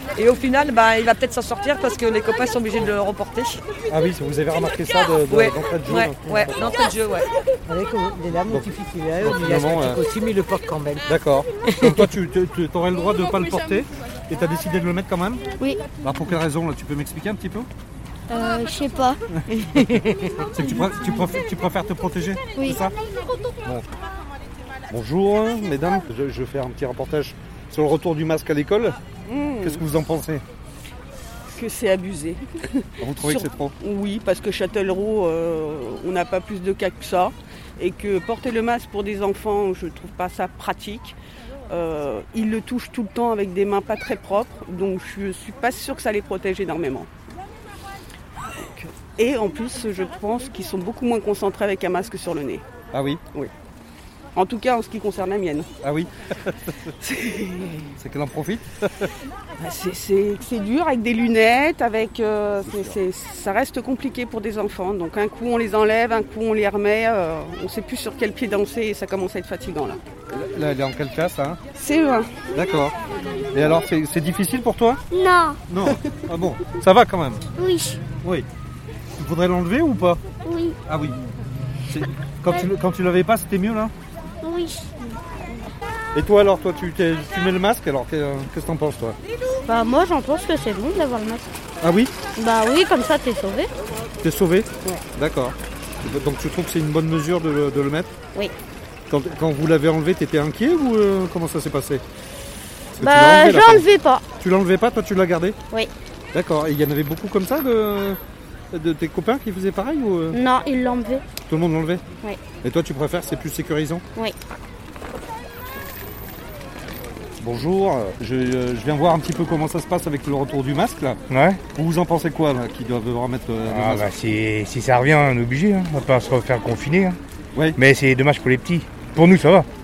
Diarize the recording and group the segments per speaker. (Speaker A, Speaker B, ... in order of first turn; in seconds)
Speaker A: 0.1-3.6, 5.3-7.3
Speaker B: 3.9-6.8, 8.5-10.0, 11.1-15.5, 16.0-17.7, 20.5-22.9, 24.9-29.0, 29.6-30.4, 33.0-33.8, 52.9-53.2, 55.8-56.9, 58.0-59.1, 62.6-63.0, 70.3-71.6, 72.5-73.0, 73.5-75.0, 75.7-77.4, 78.2-78.5, 79.2-80.2, 80.9-81.2, 81.9-83.9, 86.2-89.2, 91.8-92.2, 94.2-98.1, 99.1-102.0, 103.0-103.8, 104.4-105.6, 106.3-108.2, 108.7-110.4, 111.5-112.0, 112.6-114.0, 117.4-124.1, 127.5-127.8
Speaker C: 7.7-11.1, 11.7-12.1
Speaker D: 18.3-19.7, 89.6-91.5, 92.4-93.7, 103.0-104.2, 110.3-111.3
Speaker E: 29.3-29.9, 31.5-41.2, 41.7-47.1, 49.0-52.6, 54.4-55.7, 57.0-57.9, 59.6-70.0, 71.8-72.4
Speaker F: 75.1-75.6, 77.6-78.0, 80.4-80.8, 84.4-85.1
Speaker G: 121.3-121.6, 123.7-127.2, 127.8-129.7